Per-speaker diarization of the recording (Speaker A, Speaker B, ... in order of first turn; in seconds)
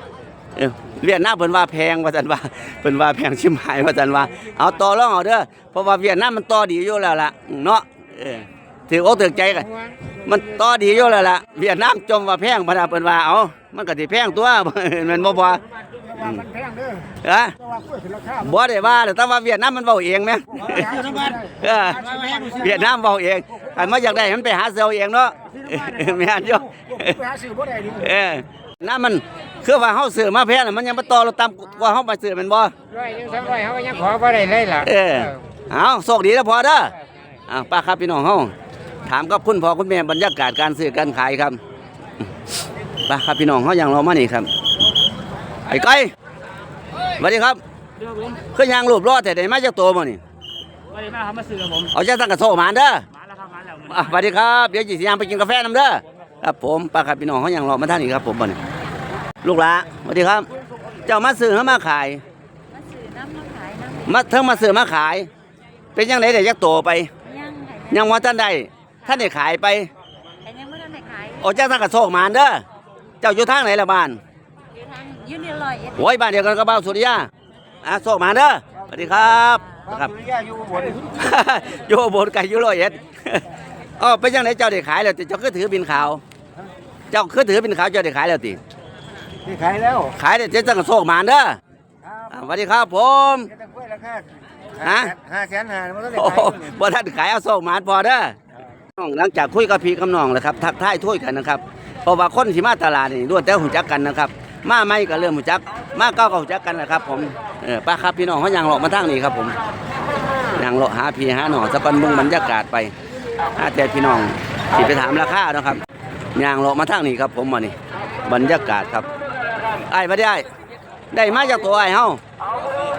Speaker A: 0.6-16.5, 17.1-17.5, 18.3-32.7, 34.7-37.0, 37.5-38.5, 39.0-41.6, 43.0-44.5, 45.7-46.1, 47.2-47.6, 48.5-50.2, 51.7-53.0, 53.7-58.6, 59.4-60.5, 61.0-62.2, 64.0-65.3, 65.9-67.1, 67.9-69.9, 71.4-72.6, 73.2-74.2, 75.9-77.3, 77.8-80.2, 81.0-83.5, 84.0-86.2, 87.1-88.6, 90.0-91.6, 92.3-93.5, 94.8-95.2, 96.0-98.3, 99.0-109.5, 110.5-112.9, 113.6-115.8, 116.3-119.1, 119.9-120.5, 121.1-122.2
Speaker B: 33.0-34.7, 51.3-51.6
Speaker C: 62.7-64.0, 67.2-67.9, 70.4-71.4, 74.7-75.9
Speaker D: 80.2-80.8, 89.5-90.0, 93.8-94.2, 95.2-96.0